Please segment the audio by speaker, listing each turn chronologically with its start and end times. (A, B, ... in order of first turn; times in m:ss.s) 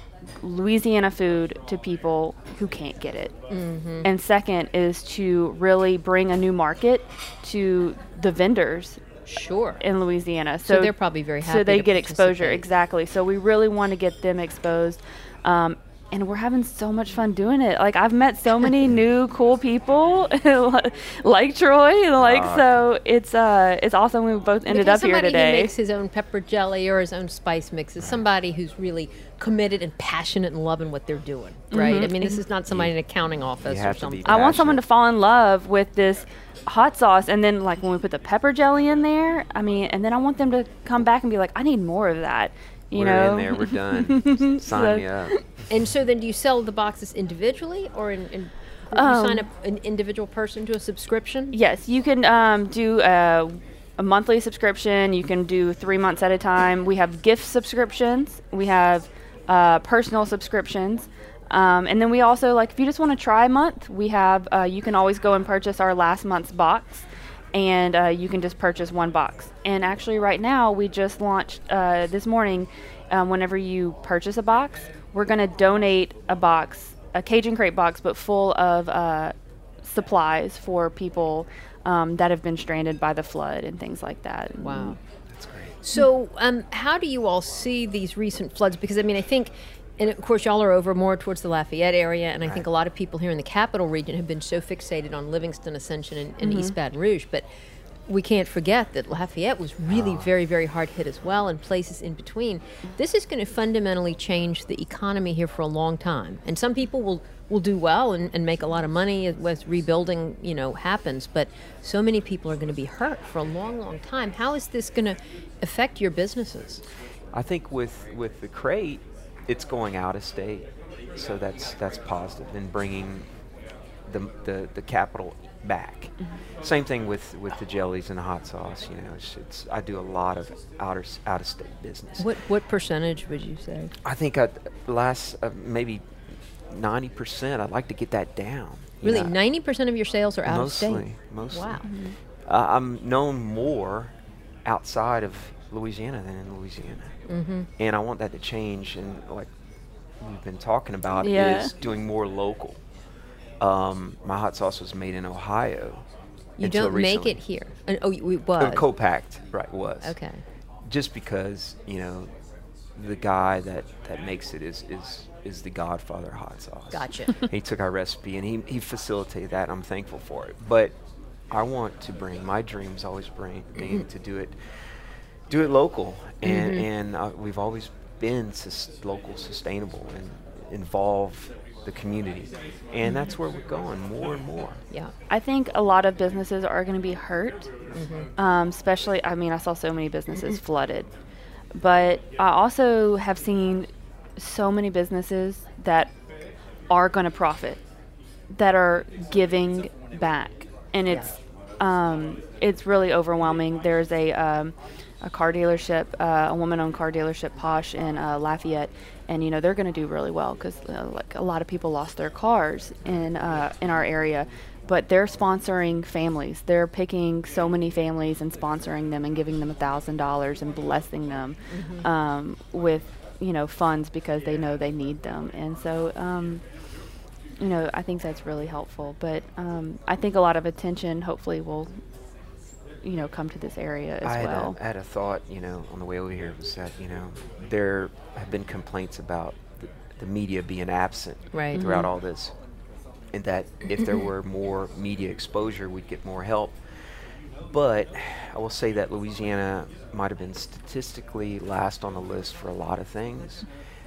0:00.4-0:03.4 A
0:03.5-0:04.1 B
0:04.0-0:09.0 A
0:09.3-0:09.8 B
0:09.8-0:25.7 A
0:10.7-0:12.7 B
0:22.2-0:22.7 C
0:24.7-0:34.4 B
0:31.7-0:32.4 A
0:33.6-0:34.8 C
0:34.2-0:45.1 A
0:42.9-0:45.4 C
0:45.7-0:51.6 B
0:48.9-0:49.5 A
0:51.5-1:25.0 A
1:24.6-1:25.0 B
1:25.3-1:25.8 C
1:25.8-1:37.5 B
1:36.4-1:36.7 A
1:38.1-1:56.8 B
1:39.9-1:40.3 C
1:57.3-2:03.3 C
2:04.1-2:12.3 C
2:12.2-2:13.9 B
2:14.0-2:16.1 C
2:16.7-2:19.4 C
2:19.0-2:21.8 B
2:20.5-2:21.8 C
2:21.8-2:22.2 A
2:22.5-2:24.1 C
2:24.7-2:27.1 C
2:27.3-2:27.7 B
2:27.8-2:29.5 C
2:30.2-2:32.8 C
2:31.2-2:31.7 A
2:33.6-2:36.0 C
2:36.6-2:38.8 B
2:36.6-2:37.4 C
2:38.6-2:40.2 C
2:40.0-2:40.4 B
2:40.8-2:42.3 C
2:43.0-2:50.9 C
2:46.9-2:47.3 B
2:51.5-2:54.6 C
2:55.5-3:04.8 C
2:56.4-2:56.9 B
3:05.3-3:07.7 A
3:08.0-3:08.3 B
3:08.4-3:11.1 A
3:11.7-3:16.1 A
3:16.9-3:17.8 A
3:18.5-3:46.6 A
3:41.7-3:42.1 B
3:47.6-3:51.9 A
3:53.0-3:54.8 A
3:54.2-4:02.5 C
4:01.5-4:01.8 B
4:01.7-4:02.1 A
4:03.3-4:06.8 C
4:07.6-4:13.7 C